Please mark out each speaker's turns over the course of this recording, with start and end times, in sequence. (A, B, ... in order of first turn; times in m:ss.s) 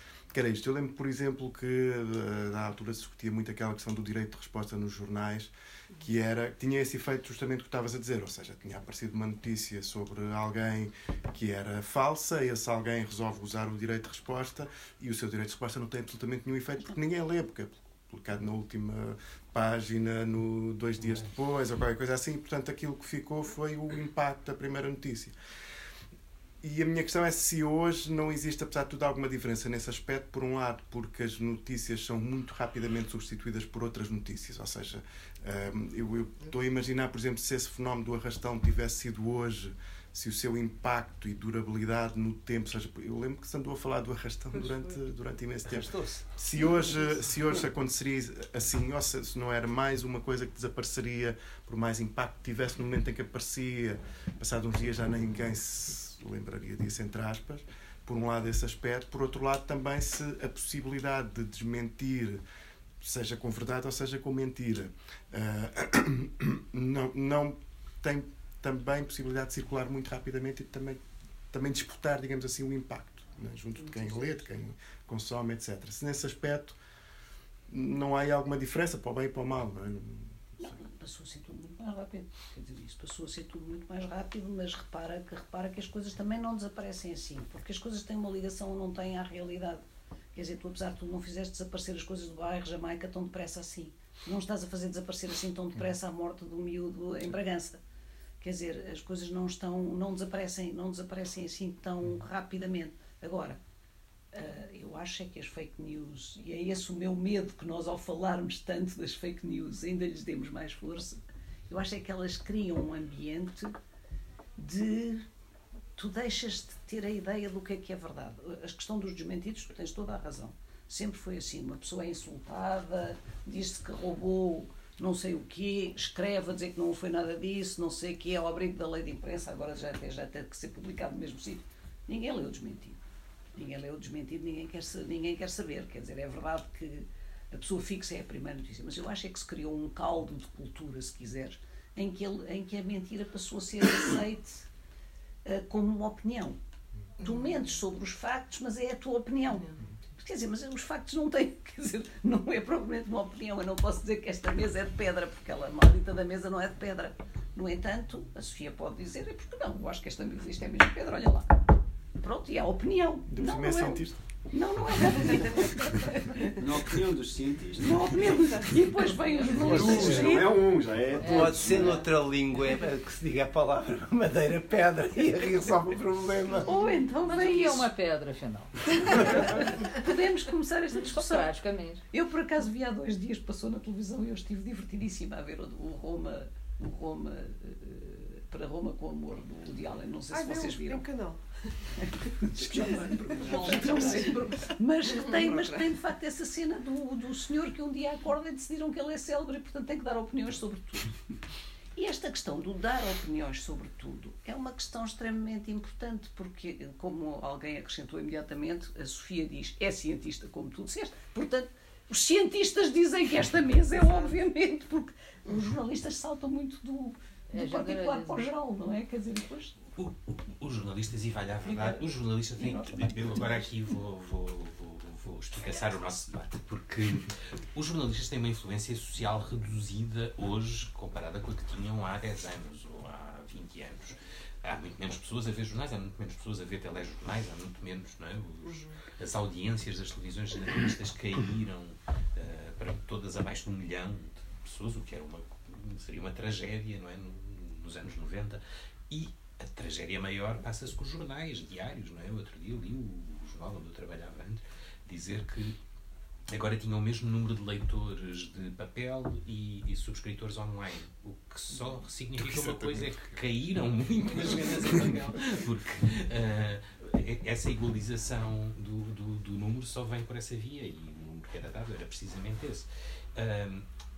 0:00.3-0:25.3 A
0:26.6-1:02.4 A
0:44.5-0:45.0 B
0:45.7-0:46.2 C
1:03.0-1:16.8 A
1:17.7-1:20.7 A
1:20.6-1:29.8 D
1:30.3-1:37.8 D
1:38.4-1:43.6 D
1:44.3-1:53.7 D
1:54.6-1:55.3 D
1:56.0-2:13.0 D
2:13.5-2:24.7 D
2:25.4-2:26.6 D
2:27.2-2:41.5 D
2:42.2-2:46.5 D
2:43.3-2:44.2 A
2:46.6-2:48.6 E
2:47.8-2:50.7 D
2:49.5-2:51.8 E
2:49.7-2:50.5 C
2:51.2-2:52.0 F
2:51.2-2:56.9 C
2:56.6-2:57.9 D
2:57.2-2:59.6 F
2:58.9-3:01.5 D
3:01.0-3:02.0 F
3:02.1-3:11.0 D
3:10.3-3:11.7 B
3:12.0-3:21.1 D
3:12.6-3:14.2 A
3:13.0-3:14.2 B
3:22.0-3:39.8 D
3:33.9-3:34.3 B
3:37.5-3:38.5 F
3:40.0-4:15.8 G
3:41.7-3:42.0 D
3:42.6-3:43.7 D
3:58.6-3:59.0 B
4:16.5-4:33.8 G
4:22.3-4:23.6 A
4:24.1-4:25.0 A